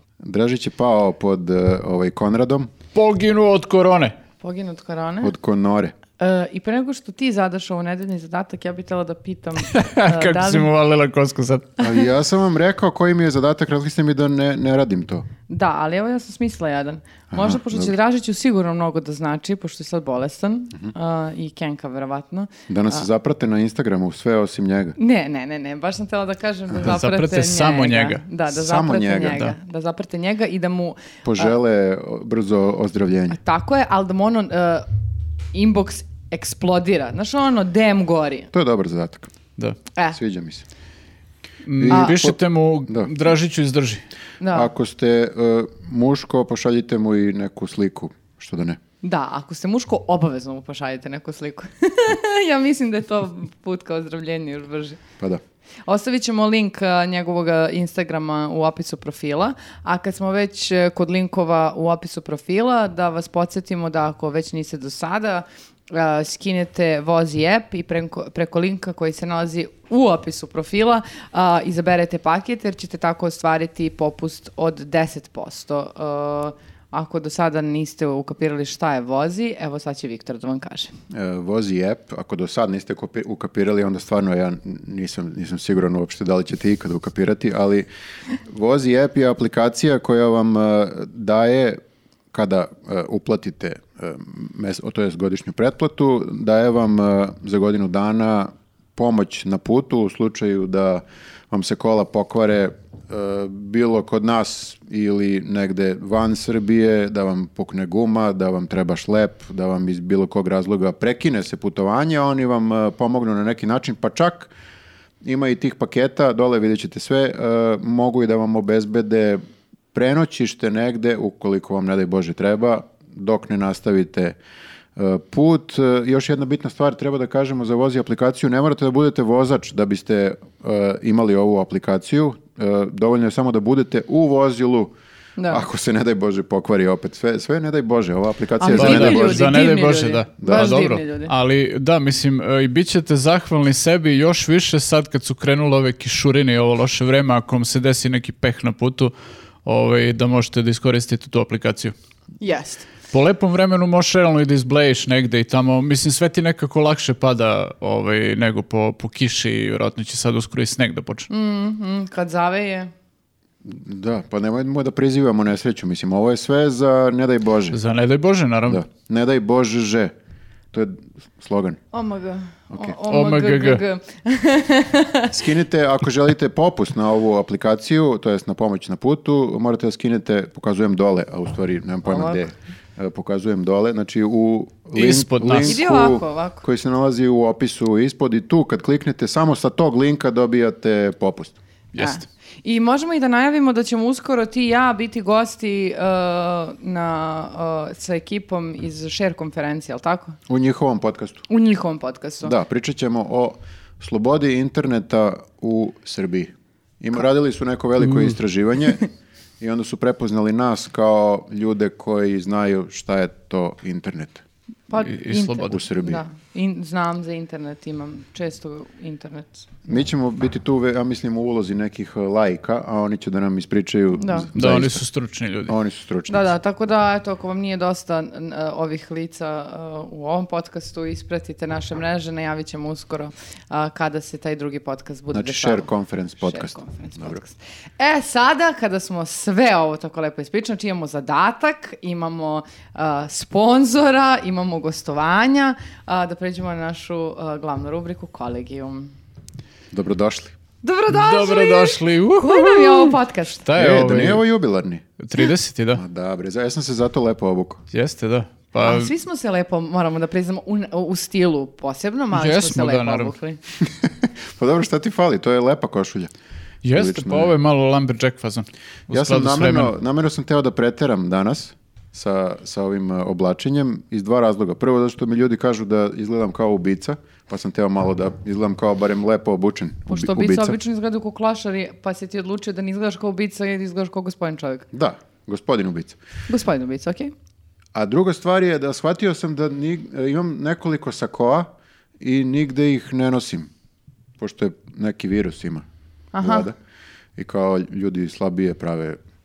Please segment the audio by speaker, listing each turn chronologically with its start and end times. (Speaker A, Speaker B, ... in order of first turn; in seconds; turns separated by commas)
Speaker A: 0.2-2.7, Speaker B: 3.0-4.2, Speaker C: 4.4-5.3, Speaker A: 5.2-5.9, Speaker C: 6.2-10.7, Speaker B: 9.6-11.8, Speaker A: 11.8-15.3, Speaker C: 15.5-23.1, Speaker A: 17.3-17.9, Speaker A: 22.7-25.0, Speaker C: 25.0-31.5, Speaker B: 26.8-28.2, Speaker A: 28.5-29.6, Speaker A: 31.2-33.4, Speaker C: 33.3-34.9, Speaker C: 35.5-38.5, Speaker A: 38.5-39.3, Speaker A: 40.1-40.6, Speaker B: 41.6-44.0, Speaker A: 41.8-43.1, Speaker C: 41.9-42.2, Speaker C: 44.4-44.7, Speaker A: 44.5-48.8, Speaker C: 49.0-55.0, Speaker C: 55.9-80.9, Speaker A: 81.1-87.9, Speaker A: 88.5-91.8, Speaker A: 92.3-114.5, Speaker A: 115.2-119.4, Speaker A: 119.9-124.4, Speaker A: 125.0-134.9, Speaker C: 135.4-135.6, Speaker A: 135.5-139.6, Speaker C: 138.6-141.3, Speaker B: 138.7-149.1, Speaker A: 140.4-140.8, Speaker B: 149.7-151.9, Speaker C: 152.4-152.9, Speaker B: 153.1-161.3, Speaker C: 161.3-162.9, Speaker A: 163.6-167.8, Speaker B: 167.7-168.8, Speaker A: 168.7-170.1, Speaker A: 170.7-171.8, Speaker C: 171.9-175.4, Speaker B: 173.1-173.8, Speaker A: 175.3-191.6, Speaker C: 182.1-182.4, Speaker B: 184.9-185.8, Speaker C: 185.6-186.6, Speaker B: 191.9-192.2, Speaker C: 192.0-200.4, Speaker A: 200.5-201.4, Speaker C: 201.5-202.6, Speaker A: 202.4-209.0, Speaker B: 208.0-208.3, Speaker A: 209.6-214.4, Speaker C: 214.9-219.7, Speaker B: 215.0-215.8, Speaker A: 215.7-216.2, Speaker A: 219.9-225.0, Speaker C: 224.2-224.5, Speaker B: 224.6-225.8, Speaker A: 225.7-226.5, Speaker C: 226.3-235.9, Speaker A: 235.3-237.4, Speaker C: 236.4-249.1, Speaker A: 249.9-250.5, Speaker C: 250.8-253.7, Speaker B: 251.1-254.4, Speaker A: 253.8-255.1, Speaker B: 255.2-256.0, Speaker A: 256.0-257.8, Speaker B: 257.9-259.1, Speaker C: 258.8-263.6, Speaker B: 262.3-263.3, Speaker A: 263.8-266.3, Speaker B: 266.8-269.9, Speaker A: 266.9-267.5, Speaker A: 269.1-280.8, Speaker C: 280.1-284.9, Speaker A: 284.9-286.2, Speaker C: 286.5-287.3, Speaker A: 287.9-291.7, Speaker A: 292.2-293.7, Speaker A: 294.4-295.9, Speaker C: 296.3-296.7, Speaker A: 296.4-296.8, Speaker A: 297.4-299.2